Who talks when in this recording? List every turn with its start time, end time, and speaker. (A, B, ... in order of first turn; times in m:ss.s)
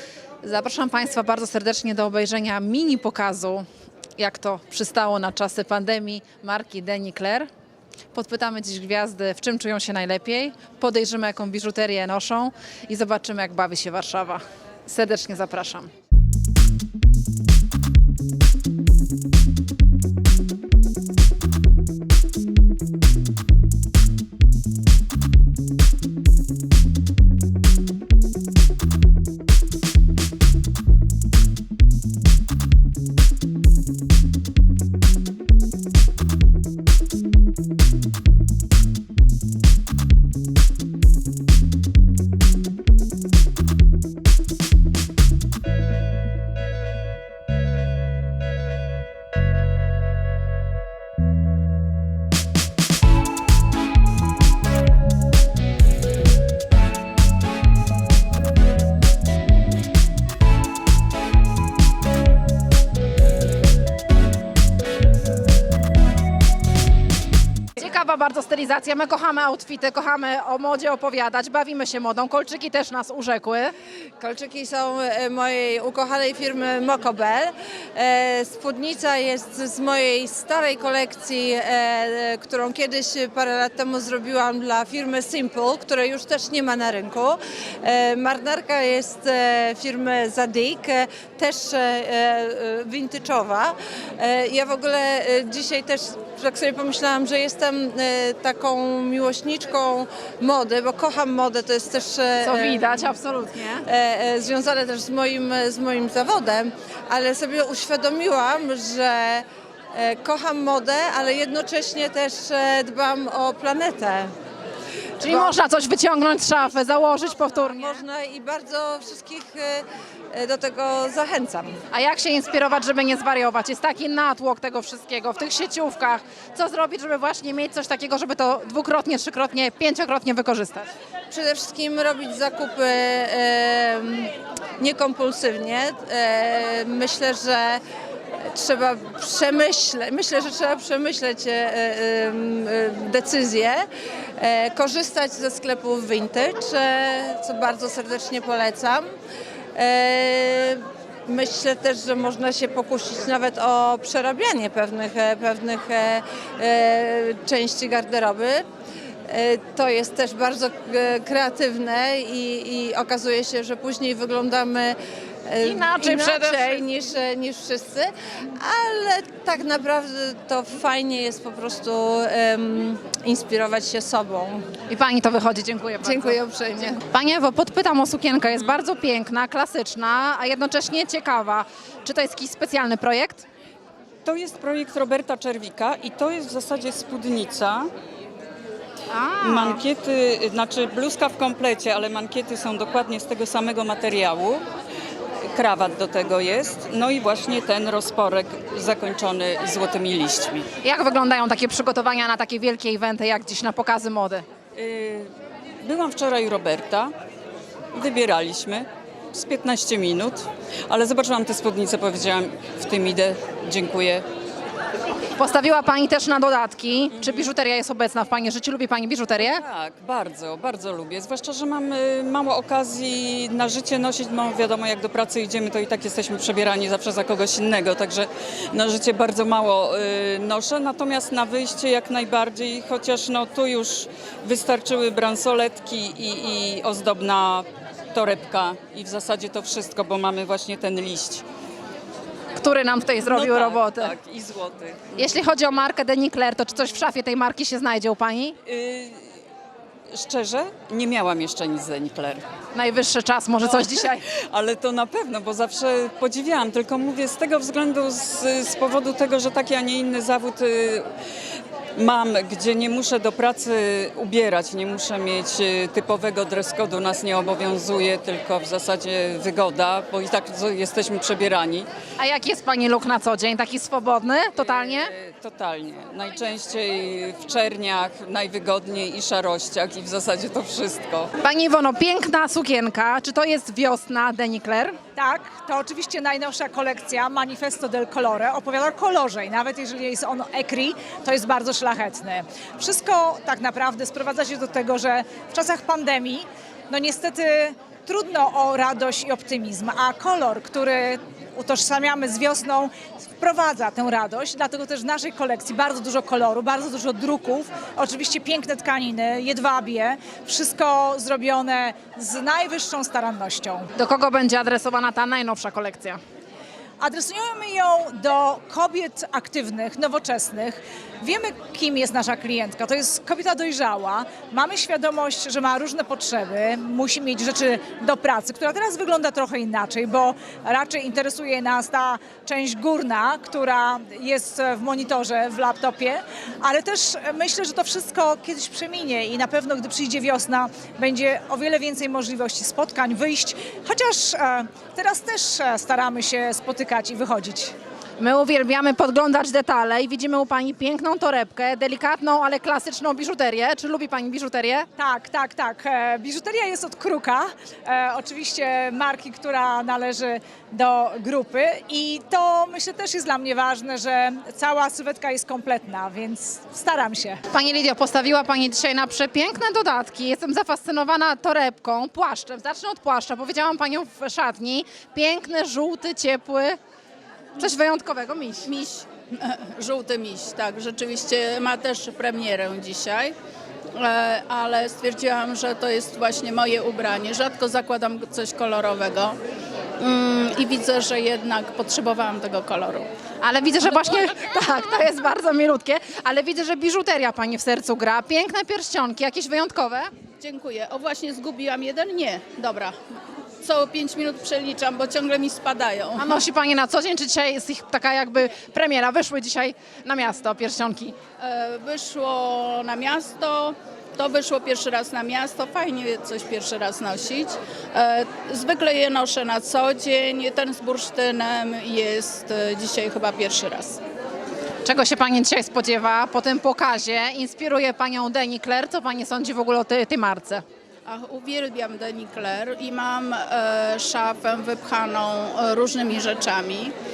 0:00.4-0:03.6 A
0:04.2-0:07.5 A
0:08.1-0:15.9 A
1:07.8-1:13.7 A
1:14.2-1:43.0 B
1:42.4-1:43.8 A
1:43.8-1:54.3 B
1:55.2-1:58.0 A
1:55.2-1:55.6 B
1:57.6-2:01.8 B
2:01.9-2:10.9 A
2:11.3-2:17.8 B
2:18.4-2:23.8 B
2:24.4-2:29.1 B
2:29.7-2:38.6 B
2:39.3-2:54.8 B
2:45.6-2:46.8 A
2:54.9-3:03.5 A
2:56.0-2:57.0 B
3:04.2-3:07.9 C
3:09.1-3:09.8 A
3:09.4-3:14.6 C
3:15.5-3:20.7 C
3:20.8-3:24.4 A
3:24.8-3:25.3 C
3:25.8-3:27.1 C
3:27.9-3:34.2 C
3:35.4-3:39.6 A
3:37.2-3:37.5 C
3:39.4-4:01.4 C
4:02.6-4:04.1 A
4:03.3-4:05.1 C
4:05.2-4:08.6 A
4:08.6-4:09.2 C
4:10.1-4:12.4 C
4:12.7-4:14.2 A
4:13.6-4:21.0 C
4:22.0-4:31.9 C
4:32.2-4:35.1 A
4:34.6-4:41.3 C
4:41.4-4:45.0 A
4:45.2-5:13.9 D
5:14.0-5:16.2 A
5:17.0-5:47.7 D
5:48.2-5:54.9 A
5:55.0-6:07.4 D
6:07.5-6:16.8 A
6:17.6-6:18.7 A
6:18.6-6:23.3 E
6:23.9-6:29.4 E
6:30.0-6:33.1 E
6:33.4-6:40.1 A
6:40.4-6:42.9 E
6:43.6-6:46.3 E
6:46.2-6:51.2 A
6:51.4-7:04.0 E
7:04.8-7:10.6 A
7:11.0-7:16.9 E